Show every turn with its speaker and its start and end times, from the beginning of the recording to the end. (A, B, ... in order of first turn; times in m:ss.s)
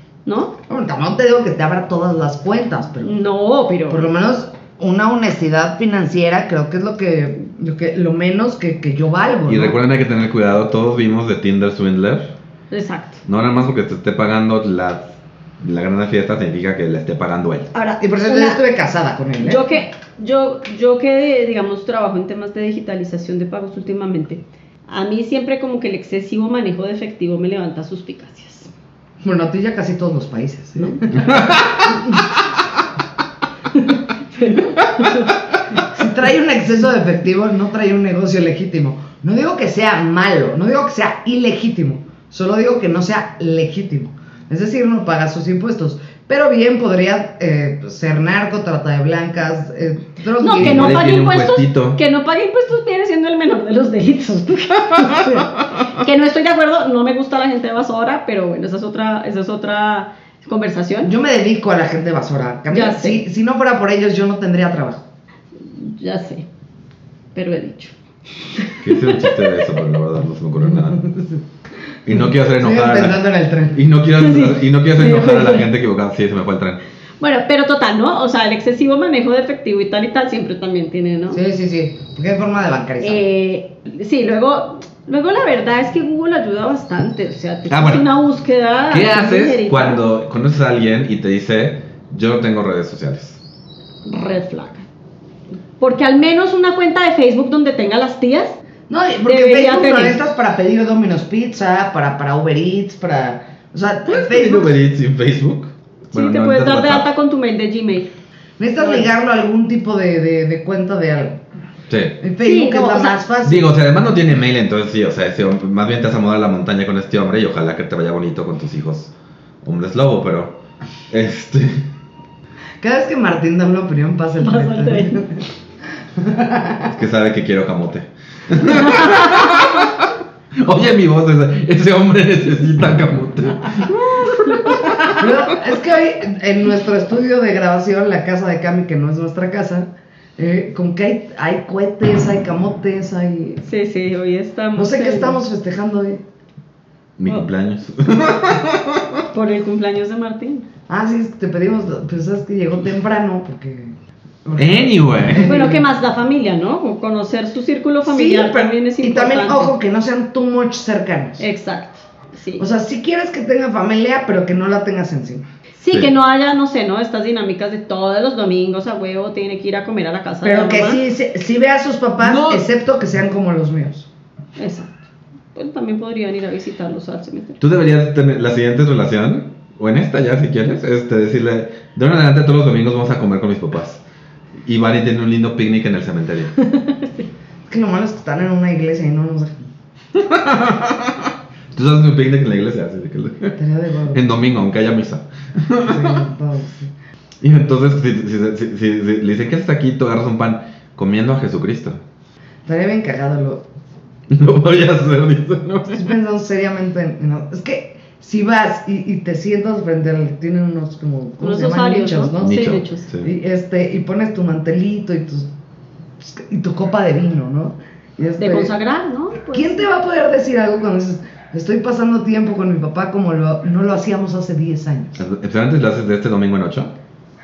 0:00.2-0:00.6 A
0:00.7-0:03.1 B
0:03.0-0:04.0 A
0:03.9-0:09.8 B
0:09.5-0:12.4 C
0:12.7-0:13.2 A
0:13.3-0:17.7 C
0:17.7-0:18.6 A
0:18.0-0:19.6 B
0:19.4-0:28.7 A
0:29.2-0:32.2 B
0:31.1-0:32.0 C
0:34.3-0:35.4 A
0:35.9-0:51.2 B
0:50.4-1:01.1 A
0:50.6-0:52.0 C
0:55.1-0:55.5 B
1:01.0-1:05.1 B
1:02.7-1:03.2 A
1:05.6-1:06.4 A
1:07.3-1:07.9 A
1:08.6-1:09.7 A
1:08.8-1:11.0 C
1:10.7-1:11.4 B
1:12.1-1:13.2 C
1:12.1-1:13.8 B
1:13.7-1:16.8 C
1:14.2-1:15.7 A
1:17.2-1:21.4 A
1:21.3-1:23.2 B
1:23.0-1:30.0 A
1:27.7-1:28.0 C
1:28.9-1:33.4 C
1:34.0-1:34.8 A
1:35.8-1:38.6 A
1:38.9-1:44.8 B
1:39.3-1:40.2 A
1:44.1-1:47.1 C
1:46.1-1:48.1 A
1:48.6-1:51.4 B
1:48.8-1:49.1 A
1:51.9-1:52.2 C
1:52.2-1:53.7 B
1:52.4-1:53.2 A
1:53.4-1:59.1 C
1:59.6-2:01.9 C
2:02.8-2:05.4 B
2:04.4-2:05.2 A
2:06.2-2:06.9 B
2:06.9-2:15.2 C
2:08.7-2:09.5 A
2:13.9-2:14.8 A
2:15.2-2:23.6 B
2:23.6-2:25.4 A
2:24.8-2:26.2 B
2:27.2-2:29.2 C
2:29.3-2:30.7 A
2:30.9-2:33.9 B
2:34.4-2:35.8 B
2:34.6-2:35.8 C
2:35.4-2:39.7 A
2:38.0-2:41.5 B
2:41.4-2:42.6 A
2:42.6-2:45.5 B
2:45.8-2:51.0 A
2:50.4-2:54.1 B
2:52.2-2:52.6 C
2:54.6-2:54.9 A
2:55.5-2:57.6 A
2:57.6-3:04.0 C
3:04.7-3:06.5 C
3:06.6-3:07.3 A
3:07.7-3:09.7 B
3:10.2-3:13.6 C
3:13.6-3:14.2 B
3:14.1-3:16.2 C
3:15.9-3:16.9 B
3:17.4-3:22.0 C
3:22.7-3:23.7 B
3:24.3-3:26.1 C
3:25.9-3:35.5 B
3:31.4-3:33.1 A
3:32.4-3:33.3 C
3:36.2-3:38.7 B
3:38.4-3:39.9 A
3:39.5-3:45.2 B
3:45.2-3:46.9 C